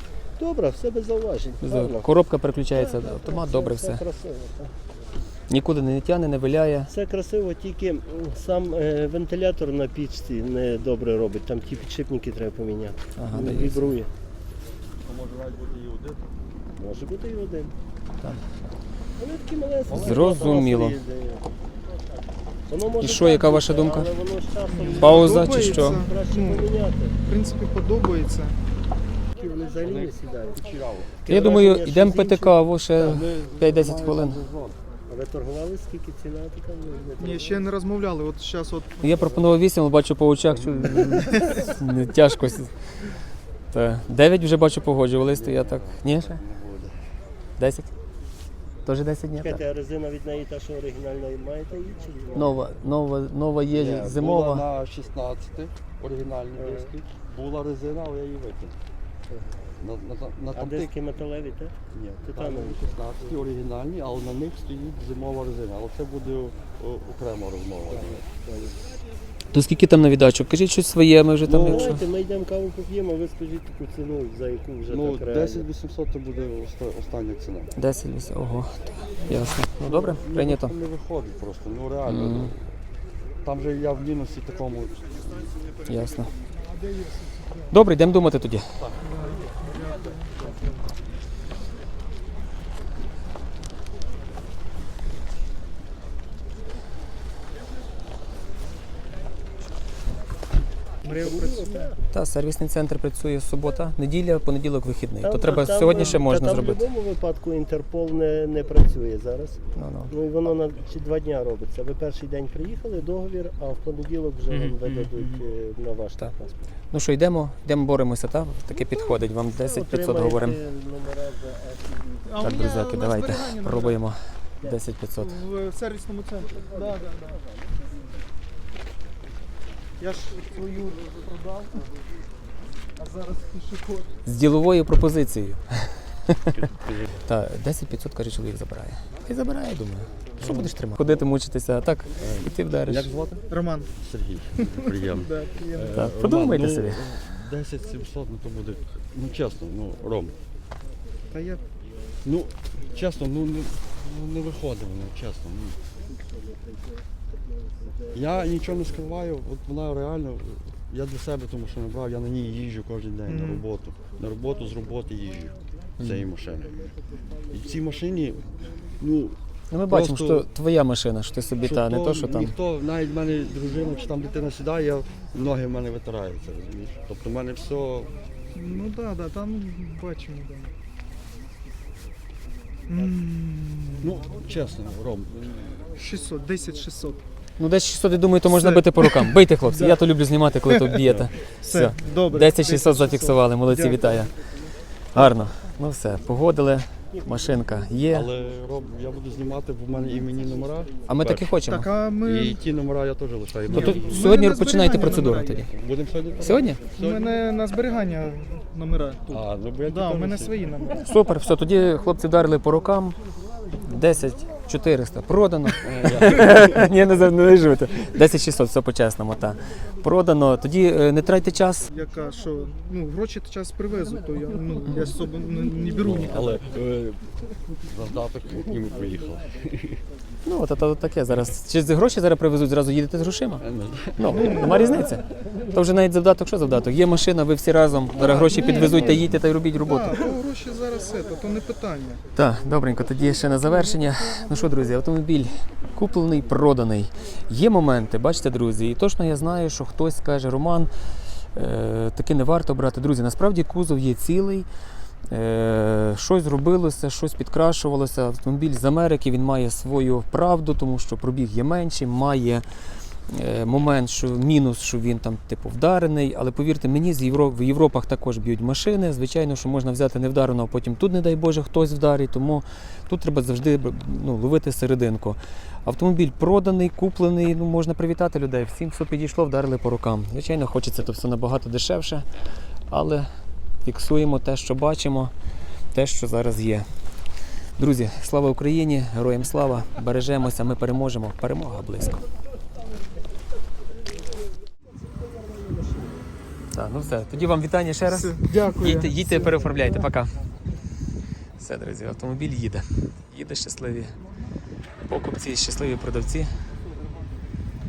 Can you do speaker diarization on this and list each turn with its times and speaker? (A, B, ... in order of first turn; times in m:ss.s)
0:00.4-0:02.1 A
0:01.6-0:04.0 B
0:02.7-0:04.7 A
0:05.5-0:06.9 B
0:06.9-0:14.1 A
0:13.2-0:13.9 B
0:15.0-0:16.3 C
0:16.8-0:17.7 A
0:19.2-0:21.7 A
0:19.9-0:20.5 C
0:20.0-0:21.0 B
0:22.7-0:27.2 A
0:23.0-0:24.1 B
0:24.7-0:28.6 D
0:25.0-0:26.0 B
0:29.3-0:32.6 A
0:29.8-0:31.2 C
0:31.3-0:34.4 B
0:33.0-0:34.8 C
0:35.1-0:37.7 A
0:37.2-0:39.3 D
0:39.0-0:42.7 B
0:43.7-0:46.4 B
0:45.3-0:47.0 C
0:47.6-0:47.9 B
0:48.8-0:49.6 B
0:49.4-0:52.6 A
0:52.3-0:54.6 B
0:53.7-0:58.8 C
0:56.6-0:56.9 A
0:59.3-0:59.6 A
0:59.8-1:00.9 C
1:00.5-1:01.8 A
1:01.9-1:08.3 C
1:02.3-1:03.0 A
1:08.3-1:08.8 A
1:09.5-1:12.0 B
1:11.4-1:12.0 C
1:11.6-1:15.6 A
1:14.9-1:17.7 C
1:17.8-1:20.7 B
1:19.2-1:19.6 D
1:19.7-1:22.7 C
1:22.1-1:22.5 B
1:23.4-1:25.7 C
1:25.8-1:26.3 B
1:26.8-1:27.3 D
1:27.7-1:28.7 B
1:28.8-1:29.2 C
1:29.0-1:30.5 D
1:41.0-1:41.9 D
1:41.0-1:42.0 A
1:42.1-1:46.8 B
1:45.2-1:56.7 A
1:49.7-1:50.1 B
1:56.9-2:00.6 B
1:59.5-2:02.5 A
2:02.2-2:04.0 D
2:02.4-2:05.4 B
2:05.2-2:07.4 D
2:10.0-2:11.9 D
2:13.0-2:14.1 D
2:14.2-2:16.4 B
2:16.5-2:17.1 C
2:17.2-2:23.1 B
2:20.4-2:20.7 C
2:22.7-2:30.4 C
2:23.5-2:23.9 D
2:24.6-2:26.0 D
2:25.9-2:27.0 B
2:31.3-2:31.6 D
2:32.2-2:35.8 C
2:38.1-2:46.9 C
2:43.2-2:43.6 D
2:47.5-2:49.4 C
2:49.7-2:52.5 B
2:49.9-2:50.5 C
2:51.6-2:58.1 C
2:58.5-3:00.7 D
3:02.9-3:04.1 D
3:04.0-3:06.0 C
3:05.9-3:07.2 D
3:07.6-3:14.3 B
3:08.4-3:10.0 D
3:10.7-3:11.0 D
3:11.0-3:11.3 C
3:11.6-3:14.1 D
3:15.1-3:18.3 B
3:17.3-3:18.1 A
3:18.1-3:21.6 C
3:21.1-3:21.9 B
3:21.6-3:22.6 D
3:22.2-3:24.4 C
3:23.7-3:25.7 D
3:23.7-3:25.7 B
3:25.7-3:27.4 C
3:26.4-3:26.8 B
3:26.9-3:31.0 D
3:29.3-3:30.9 C
3:31.0-3:33.2 B
3:33.8-3:41.9 B
3:35.8-3:36.8 C
3:41.9-3:46.7 D
3:46.0-3:50.0 C
3:50.4-4:00.2 B
3:53.6-3:54.8 C
3:54.3-3:55.2 D
3:58.2-4:02.2 D
4:02.3-4:10.9 B
4:11.5-4:14.7 B
4:15.3-4:22.6 B
4:23.3-4:42.2 B
4:42.9-4:43.3 B
4:43.8-4:45.3 B
4:45.9-4:46.8 B
4:47.8-4:52.2 B
4:55.0-4:56.3 A
4:56.7-5:00.4 B
4:58.1-4:59.5 D
5:01.6-5:04.2 B
5:05.0-5:06.5 B